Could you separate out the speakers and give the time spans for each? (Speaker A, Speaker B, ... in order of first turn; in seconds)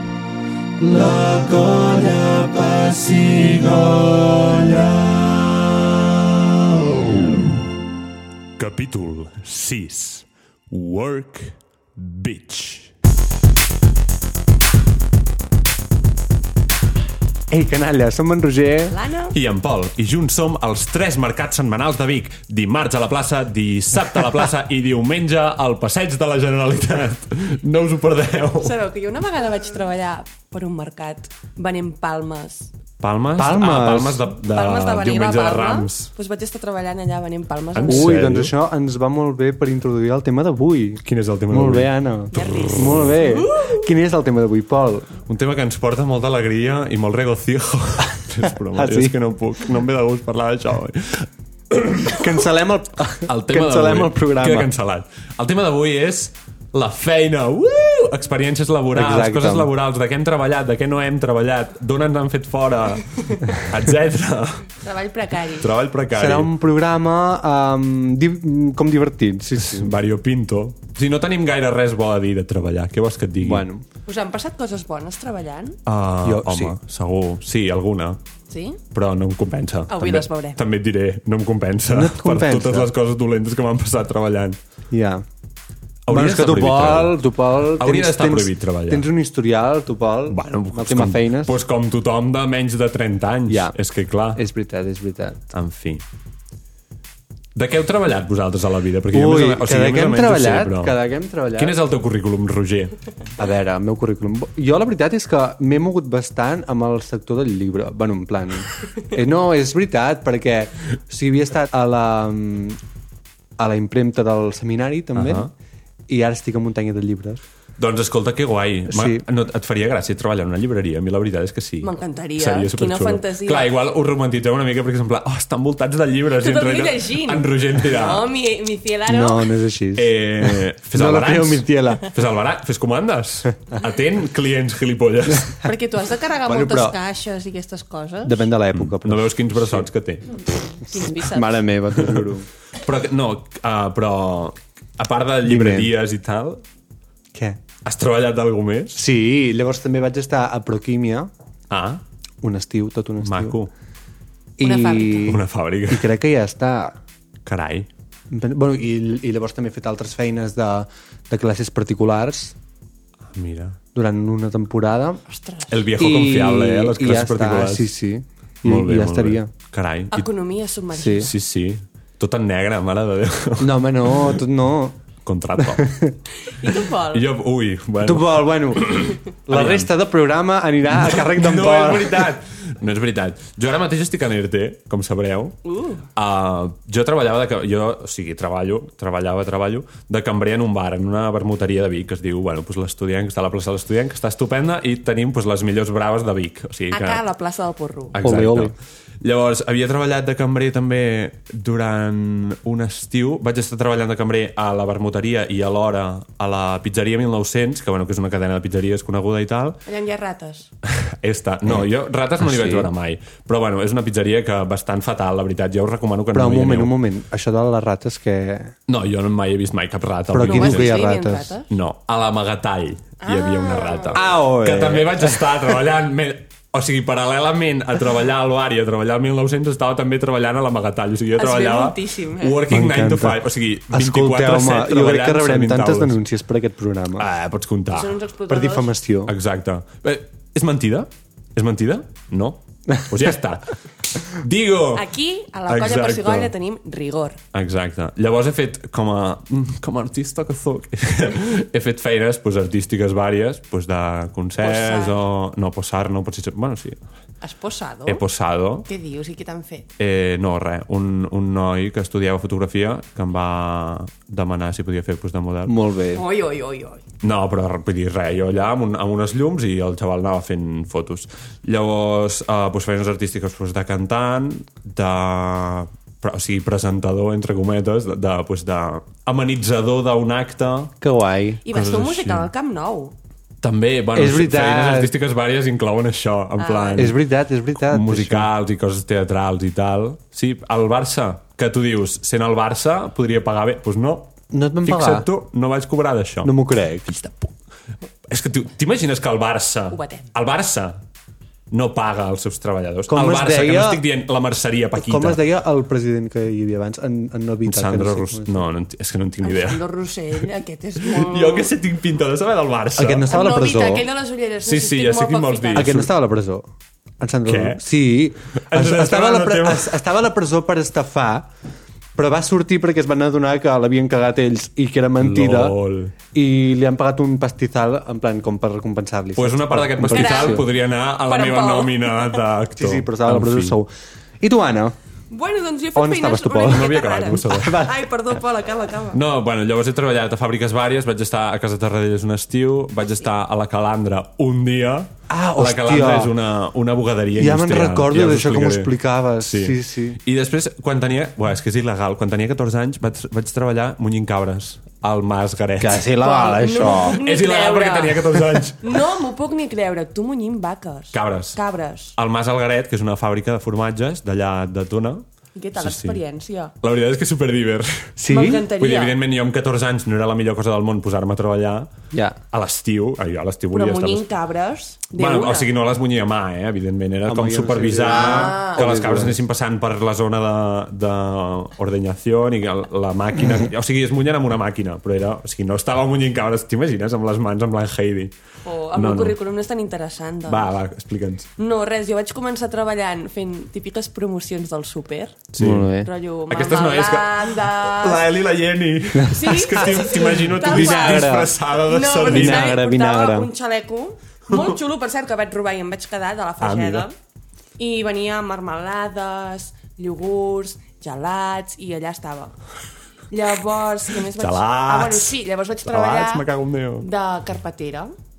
Speaker A: 0.8-7.4, 8.6-12.9, 19.3-28.8, 33.0-36.1, 37.7-38.5, 41.0-41.9, 42.6-43.0, 45.3-52.3, 53.3-64.7, 65.6-66.5, 69.6-73.7, 75.8-78.2, 78.9-84.6, 86.1-89.0, 90.3-94.4, 95.5-96.0, 97.5-101.0, 101.5-102.9, 115.2-115.5, 117.8-128.3, 129.9-135.6, 138.7-140.4, 141.9-146.6, 147.8-149.0, 151.7-152.0, 153.2-153.7, 155.3-156.1, 157.4-157.9, 163.3-163.8, 165.7-167.9, 168.6-170.3, 171.0-174.4, 175.2-175.9, 177.1-179.9, 180.9-185.6, 186.2-197.2, 198.1-209.8, 210.8-216.9, 218.9-220.9, 221.7-236.2, 237.2-238.2, 239.2-245.1, 245.7-246.5, 247.5-257.0, 258.1-258.9, 260.0-265.7, 267.2-280.9, 281.7-282.5, 283.6-287.2, 287.8-296.5, 297.1-297.5, 298.3-301.0, 301.7-305.4, 307.6-309.8, 311.0-313.3, 314.6-316.1, 317.4-317.8, 318.6-320.0, 325.2-326.1, 329.3-333.8, 336.7-337.9, 339.1-356.0, 356.7-359.0, 361.1-361.6, 362.2-365.2, 365.8-366.2, 366.8-368.1, 368.8-371.9, 372.5-374.2, 375.1-388.3, 388.9-389.4, 390.4-391.5, 395.5-395.9, 396.5-402.8, 406.6-407.1, 414.4-417.1
Speaker B: 17.5-18.9, 33.4-34.3, 37.9-45.1, 48.7-49.1, 52.0-54.7, 58.9-59.7, 66.1-69.9, 73.4-73.8, 76.2-76.8, 81.9-82.9, 84.9-85.2, 86.1-91.5, 93.5-93.7, 94.3-95.4, 99.1-101.7, 103.4-112.8, 113.6-115.5, 116.1-117.4, 118.9-119.2, 129.1-132.1, 136.4-136.9, 138.2-139.9, 141.1-142.5, 145.4-145.9, 147.3-147.6, 148.9-151.3, 152.4-153.6, 154.6-157.0, 158.3-162.6, 163.9-165.2, 166.0-169.5, 170.9-171.3, 173.6-175.0, 175.6-176.1, 178.0-182.3, 198.2-198.7, 212.4-212.9, 216.3-218.7, 220.3-221.5, 224.1-225.8, 232.7-237.3, 238.5-239.3, 265.6-266.2, 281.0-281.6, 284.1-285.1, 286.9-288.5, 294.5-295.3, 296.4-297.1, 303.1-304.0, 304.9-308.6, 313.0-314.1, 315.7-316.7, 317.2-321.5, 322.1-325.8, 326.3-330.6, 332.8-333.9, 334.4-334.9, 335.9-337.9, 345.3-346.3, 347.3-350.2, 355.8-357.2, 368.2-368.7, 372.1-372.4, 377.2-379.4, 395.6-396.1, 399.2-400.0, 400.6-401.5, 402.2-403.5
Speaker C: 18.9-19.3, 28.6-32.7, 34.5-38.1, 42.3-43.9, 63.2-63.5, 64.8-65.7, 74.0-75.8, 78.5-78.8, 79.9-80.6, 121.8-123.7, 126.3-129.5, 135.6-138.5, 140.7-141.6, 154.6-155.4, 165.3-165.8, 170.1-171.3, 176.4-177.2, 185.6-186.0, 196.9-198.2, 209.8-210.7, 220.4-221.7, 223.2-224.2, 231.3-232.6, 237.9-238.9, 244.9-247.4, 254.6-255.2, 257.4-258.2, 258.8-259.9, 266.1-267.0, 281.6-283.1, 286.6-287.1, 299.9-300.2, 309.4-311.7, 313.3-315.9, 330.1-330.6, 331.3-332.4, 335.3-339.2, 356.2-362.1, 365.6-366.7, 368.3-369.1, 373.7-375.7, 378.1-378.8, 388.6-390.7, 391.6-395.4, 396.0-398.2, 399.2-407.1, 407.8-412.6, 413.3-416.4, 417.0-418.1